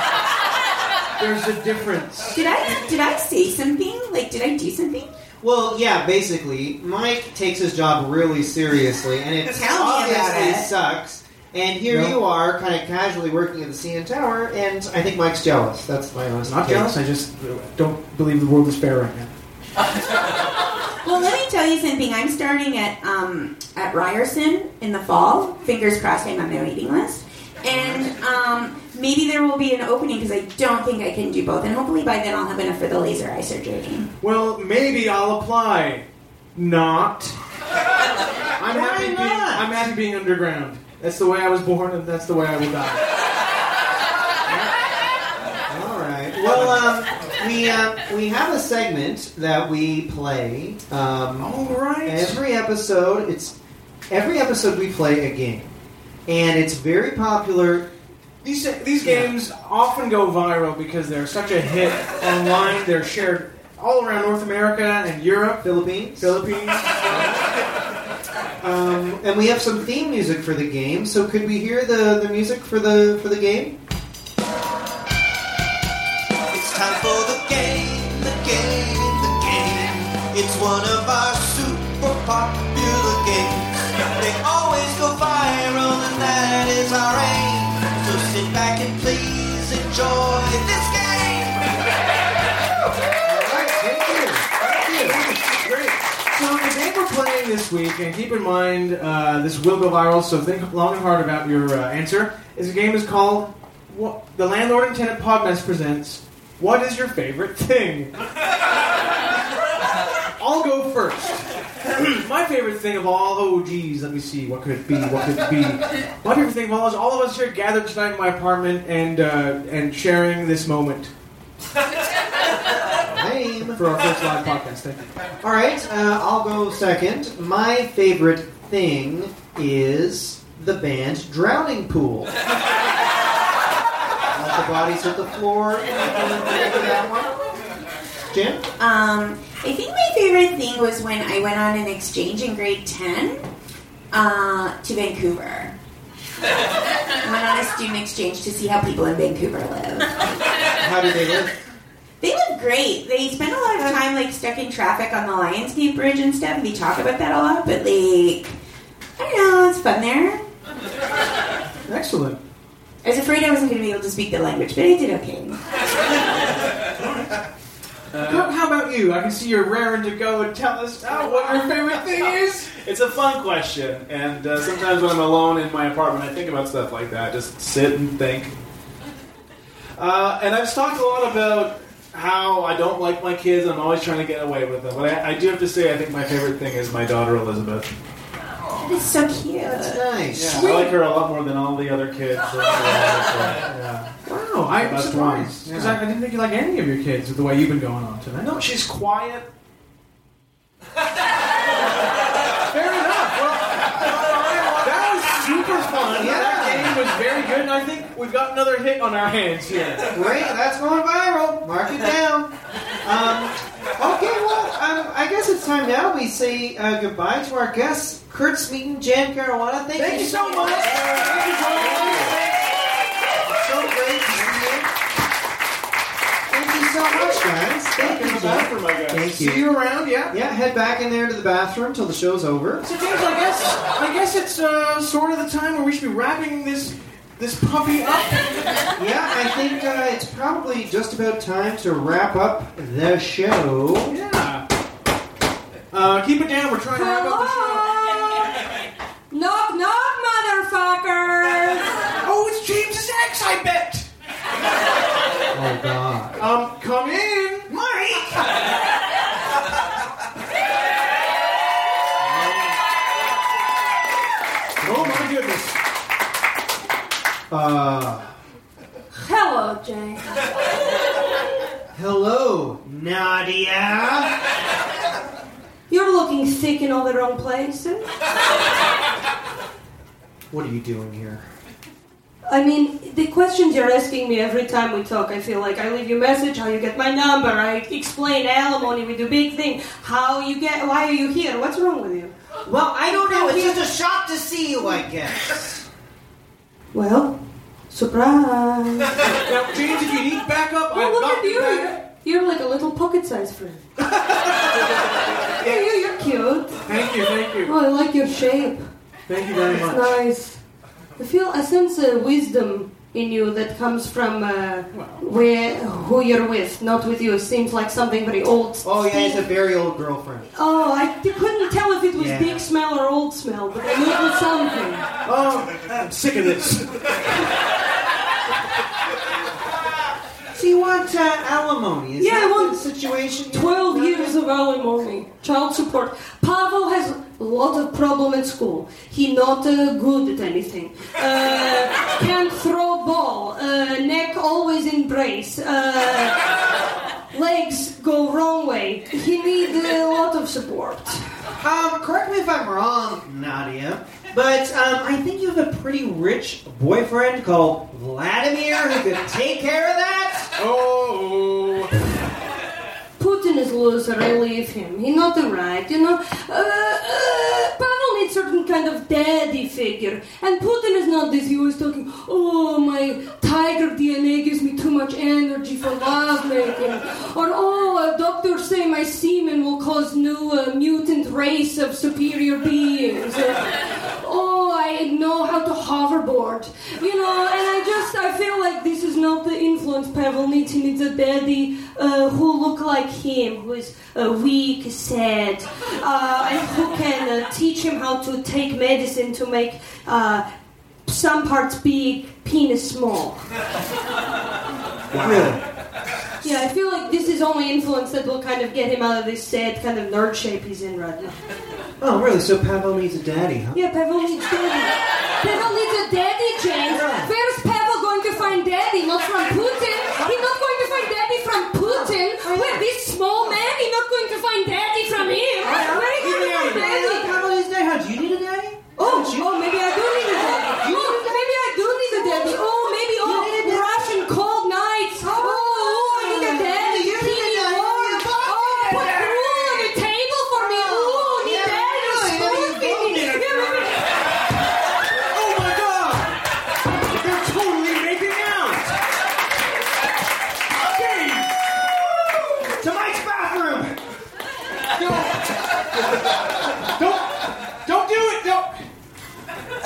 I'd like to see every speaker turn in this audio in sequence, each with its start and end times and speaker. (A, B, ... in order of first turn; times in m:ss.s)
0:01.2-0:02.4 A
0:02.3-0:05.1 B
0:05.4-0:16.9 C
0:09.5-0:10.7 B
0:11.9-0:12.2 A
0:16.5-0:19.3 A
0:21.0-0:34.1 B
0:27.7-0:28.1 C
0:34.2-0:37.4 A
0:38.6-0:43.0 A
0:38.6-0:39.7 C
0:45.7-0:53.5 C
0:46.4-0:46.8 A
0:51.4-0:52.4 A
0:54.1-0:55.7 C
0:56.3-0:57.9 C
0:58.4-1:07.4 A
0:59.0-0:59.3 C
1:05.6-1:06.4 C
1:08.6-1:13.8 C
1:16.5-1:31.7 D
1:33.2-1:35.2 C
1:34.8-1:48.1 A
1:50.4-2:01.1 A
2:03.1-2:03.8 C
2:03.7-2:05.2 A
2:05.4-2:12.4 C
2:14.3-2:17.3 C
2:18.3-2:18.7 C
2:18.8-2:23.5 B
2:24.1-2:25.8 B
2:27.2-2:30.1 B
2:30.8-2:31.6 C
2:32.2-2:38.6 B
2:39.2-2:40.4 B
2:41.9-2:42.4 A
2:43.0-2:45.6 B
2:48.1-2:48.5 E
2:48.2-2:52.7 A
2:51.0-2:58.6 E
3:00.0-3:07.9 E
3:08.8-3:10.0 B
3:09.6-3:10.7 C
3:10.3-3:13.7 E
3:10.5-3:11.0 A
3:13.6-3:14.1 C
3:14.3-3:18.6 A
3:14.7-3:15.7 E
3:15.6-3:16.0 C
3:18.4-3:19.5 E
3:22.7-3:30.1 A
3:26.1-3:27.0 C
3:30.1-3:32.5 C
3:33.0-3:42.6 C
3:40.0-3:42.4 A
3:41.7-3:42.4 E
3:43.4-3:44.9 C
3:46.5-3:49.6 C
3:47.9-3:49.2 E
3:49.3-3:50.4 A
3:50.3-3:52.8 C
3:52.8-3:58.4 A
3:59.0-4:04.2 C
4:04.1-4:04.6 A
4:05.9-4:08.2 A
4:06.9-4:08.5 F
4:09.3-4:11.9 F
4:12.2-4:14.1 A
4:15.5-4:16.4 C
4:16.4-4:17.7 A
4:17.7-4:18.5 C
4:22.3-4:22.7 C
4:24.8-4:25.3 C
4:24.8-4:25.8 A
4:27.5-4:28.3 C
4:29.2-4:30.3 F
4:31.9-4:34.4 C
4:35.9-4:38.1 F
4:40.5-4:41.5 C
4:42.5-4:52.3 F
4:52.7-4:55.9 C
4:53.1-4:53.8 F
4:56.9-4:59.2 F
4:59.5-5:02.0 A
5:00.9-5:03.9 F
5:05.6-5:06.8 F
5:06.9-5:07.7 A
5:07.6-5:08.9 F
5:09.3-5:10.1 A
5:09.8-5:10.6 F
5:11.2-5:19.5 F
5:14.9-5:15.2 A
5:18.8-5:20.5 C
5:20.5-5:25.1 F
5:22.1-5:22.7 C
5:25.2-5:27.3 A
5:30.5-5:34.4 C
5:32.2-5:32.9 F
5:33.5-5:46.4 F
5:47.3-5:51.5 F
5:51.6-6:00.5 C
6:00.6-6:01.9 A
6:03.2-6:40.4 F
6:41.1-6:43.5 F
6:45.1-6:45.6 C
6:46.4-6:51.4 F
6:52.0-6:53.8 C
6:53.7-7:07.3 F
6:56.9-6:57.3 C
7:01.8-7:02.9 C
7:05.6-7:09.5 C
7:09.0-7:24.1 F
7:10.8-7:12.6 C
7:13.2-7:14.1 C
7:15.3-7:20.0 C
7:20.6-7:23.9 C
7:25.3-7:26.4 A
7:26.9-7:29.0 A
7:30.8-7:31.7 A
7:32.6-7:34.0 C
7:34.9-7:35.5 A
7:36.9-7:38.8 A